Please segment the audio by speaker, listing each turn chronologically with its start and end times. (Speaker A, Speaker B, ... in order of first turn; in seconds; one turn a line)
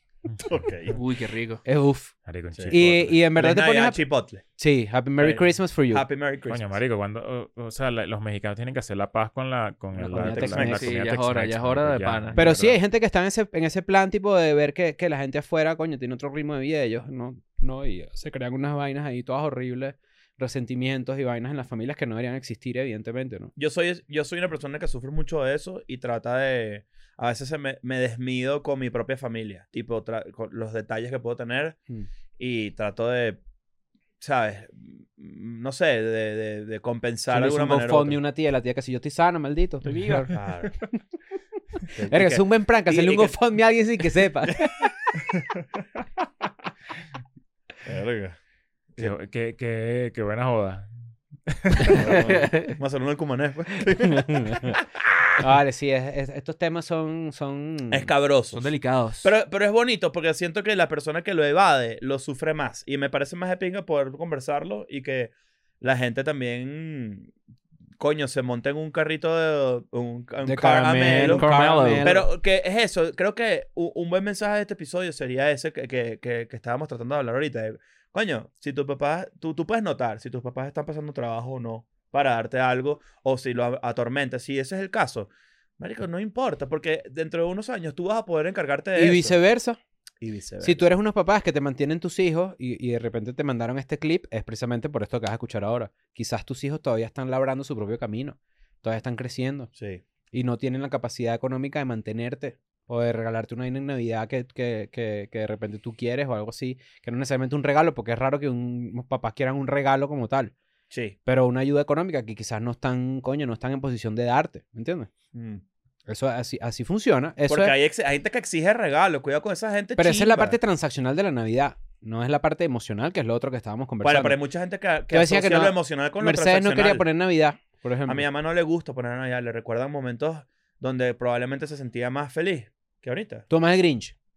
Speaker A: 0.5-0.9
Speaker B: 0.9-1.6
Speaker C: 1.6-2.1
Speaker D: 2.3-3.2
Speaker C: 2.7-4.0
Speaker A: 3.4-4.4
Speaker C: 4.6-6.1
Speaker A: 5.2-6.8
Speaker D: 6.5-12.8
Speaker C: 10.0-10.8
Speaker A: 10.1-10.8
Speaker B: 10.7-12.4
Speaker C: 12.3-23.5
Speaker A: 23.6-31.8
Speaker A: 32.4-33.4
Speaker A: 34.2-38.2
Speaker C: 37.3-41.0
Speaker B: 39.9-40.3
Speaker A: 40.3-40.7
Speaker A: 41.9-43.4
Speaker C: 42.1-44.9
Speaker A: 44.5-44.9
Speaker A: 47.9-48.4
Speaker D: 49.0-50.9
Speaker D: 51.5-52.1
Speaker B: 51.9-52.8
Speaker A: 51.9-55.3
Speaker C: 54.0-54.8
Speaker C: 55.4-58.1
Speaker A: 57.9-58.7
Speaker B: 58.5-59.3
Speaker A: 59.2-67.3
Speaker A: 68.0-89.4
Speaker C: 70.4-72.3
Speaker B: 71.1-72.2
Speaker C: 89.0-89.8
Speaker A: 90.2-90.9
Speaker C: 90.6-99.7
Speaker A: 99.8-100.0
Speaker C: 100.3-110.5
Speaker A: 110.9-111.2
Speaker C: 111.2-115.1
Speaker A: 115.3-115.6
Speaker C: 116.1-117.8
Speaker A: 117.5-120.6
Speaker C: 120.0-124.4
Speaker A: 124.0-127.0
Speaker C: 125.1-128.3
Speaker A: 128.1-133.5
Speaker C: 133.5-134.1